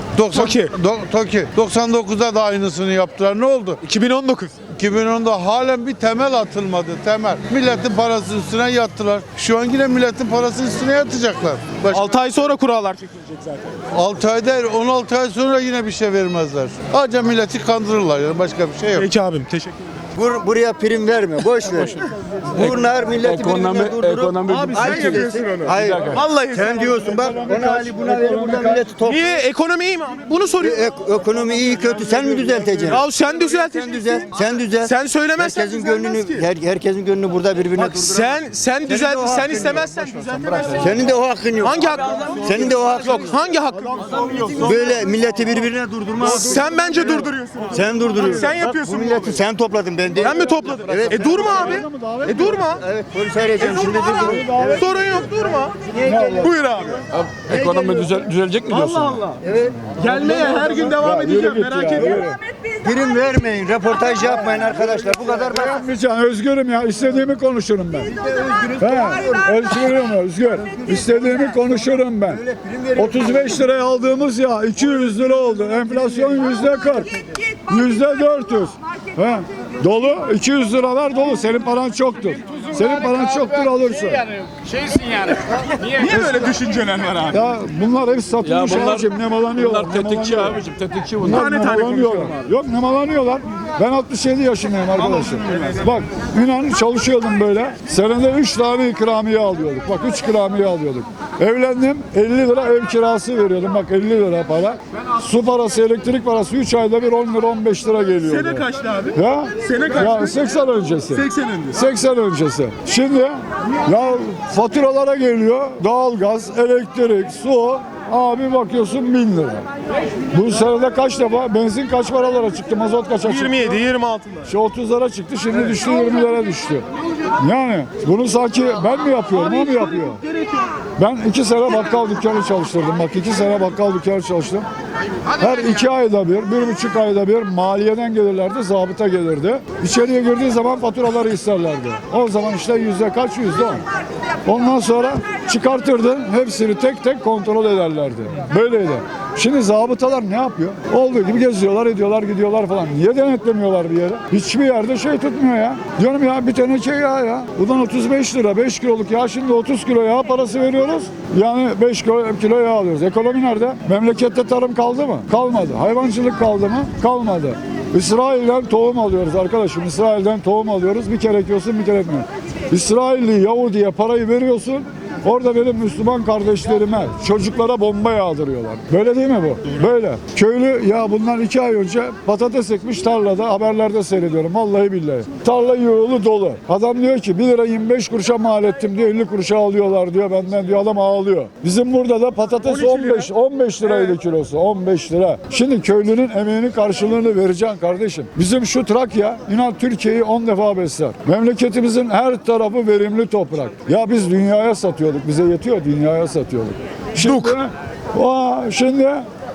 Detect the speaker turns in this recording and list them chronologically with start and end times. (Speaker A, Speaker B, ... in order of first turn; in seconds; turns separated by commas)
Speaker A: 0.2-3.8, Speaker B: 0.3-0.7, Speaker B: 3.8-4.5, Speaker A: 4.8-12.1, Speaker B: 11.9-13.8, Speaker A: 13.9-19.1, Speaker B: 18.9-19.9, Speaker C: 20.1-29.4, Speaker D: 22.5-26.2, Speaker B: 24.6-27.1, Speaker E: 26.8-28.9, Speaker B: 29.0-30.9, Speaker C: 30.6-33.0, Speaker B: 32.8-36.5, Speaker C: 33.7-43.4, Speaker B: 37.8-45.1, Speaker C: 44.4-51.6, Speaker B: 46.2-49.4, Speaker B: 50.2-52.8, Speaker E: 51.1-52.7, Speaker C: 52.5-54.7, Speaker B: 53.6-55.8, Speaker E: 54.2-55.3, Speaker C: 55.9-56.4, Speaker E: 56.0-56.5, Speaker B: 56.4-57.0, Speaker D: 57.1-59.2, Speaker C: 57.5-58.2, Speaker B: 58.7-59.4, Speaker C: 59.4-60.8, Speaker B: 60.0-62.3, Speaker E: 60.8-62.4, Speaker C: 62.8-65.8, Speaker E: 64.2-68.2, Speaker C: 68.1-69.6, Speaker E: 68.8-84.2, Speaker C: 70.7-71.1, Speaker C: 72.3-73.5, Speaker C: 76.0-76.4, Speaker B: 84.7-87.5, Speaker E: 86.1-86.6, Speaker E: 87.3-90.6, Speaker D: 88.4-91.5, Speaker E: 91.2-119.7, Speaker B: 91.2-92.3, Speaker B: 95.1-95.7, Speaker B: 108.2-110.4, Speaker B: 111.1-111.9, Speaker E: 120.3-123.8, Speaker B: 123.2-124.5, Speaker E: 124.5-126.8, Speaker E: 127.4-130.2, Speaker B: 129.3-130.7, Speaker E: 131.0-134.7, Speaker E: 135.3-143.8, Speaker E: 144.4-209.3, Speaker B: 192.6-193.3, Speaker B: 193.8-194.1, Speaker B: 207.2-207.6